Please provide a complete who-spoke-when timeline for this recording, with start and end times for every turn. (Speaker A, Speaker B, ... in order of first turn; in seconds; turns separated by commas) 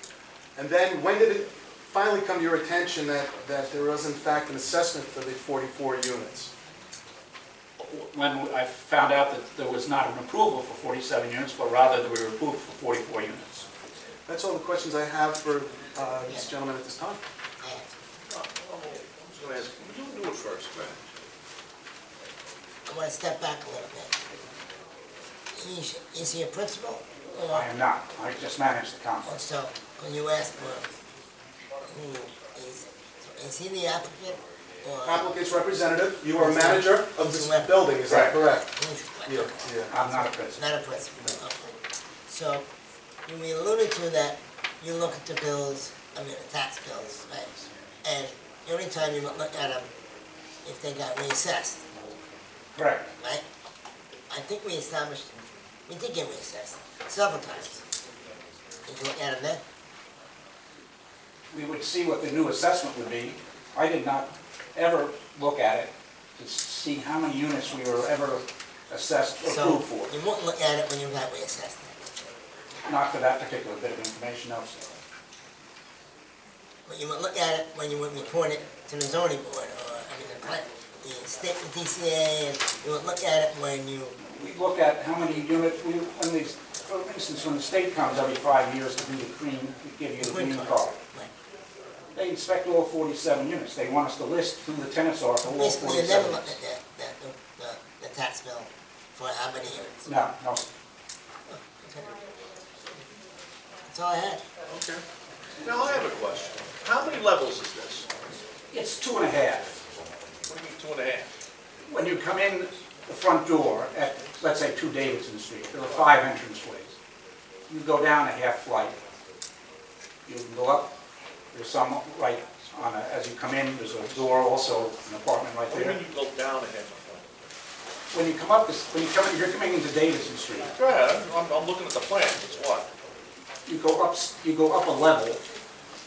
Speaker A: 0.6-6.5, Speaker B: 7.8-13.7, Speaker A: 14.3-17.2, Speaker C: 17.6-17.9, Speaker D: 18.3-21.0, Speaker C: 22.9-24.1, Speaker C: 25.5-27.7, Speaker B: 27.5-29.4, Speaker C: 29.2-30.9, Speaker C: 31.9-35.3, Speaker A: 35.0-38.7, Speaker C: 36.4-37.9, Speaker B: 38.1-38.4, Speaker C: 38.5-41.7, Speaker A: 39.2-39.9, Speaker B: 39.9-40.6, Speaker C: 42.3-42.6, Speaker C: 43.2-49.9, Speaker C: 50.6-51.8, Speaker B: 52.8-53.1, Speaker C: 54.3-55.3, Speaker C: 55.9-57.8, Speaker C: 58.8-59.6, Speaker B: 61.5-70.1, Speaker C: 69.4-72.0, Speaker B: 72.8-74.9, Speaker C: 76.8-84.2, Speaker B: 84.2-91.0, Speaker C: 90.2-91.3, Speaker B: 92.1-96.5, Speaker C: 95.4-100.1, Speaker B: 100.0-100.7, Speaker C: 101.5-102.1, Speaker C: 103.9-104.4, Speaker D: 104.7-105.0, Speaker D: 105.6-108.1, Speaker B: 108.7-109.7, Speaker D: 110.5-111.3, Speaker B: 111.9-116.9, Speaker B: 117.7-119.0, Speaker B: 120.2-120.9, Speaker B: 121.5-126.0, Speaker D: 125.7-127.2, Speaker B: 128.1-130.7, Speaker D: 130.7-132.9, Speaker B: 133.7-135.4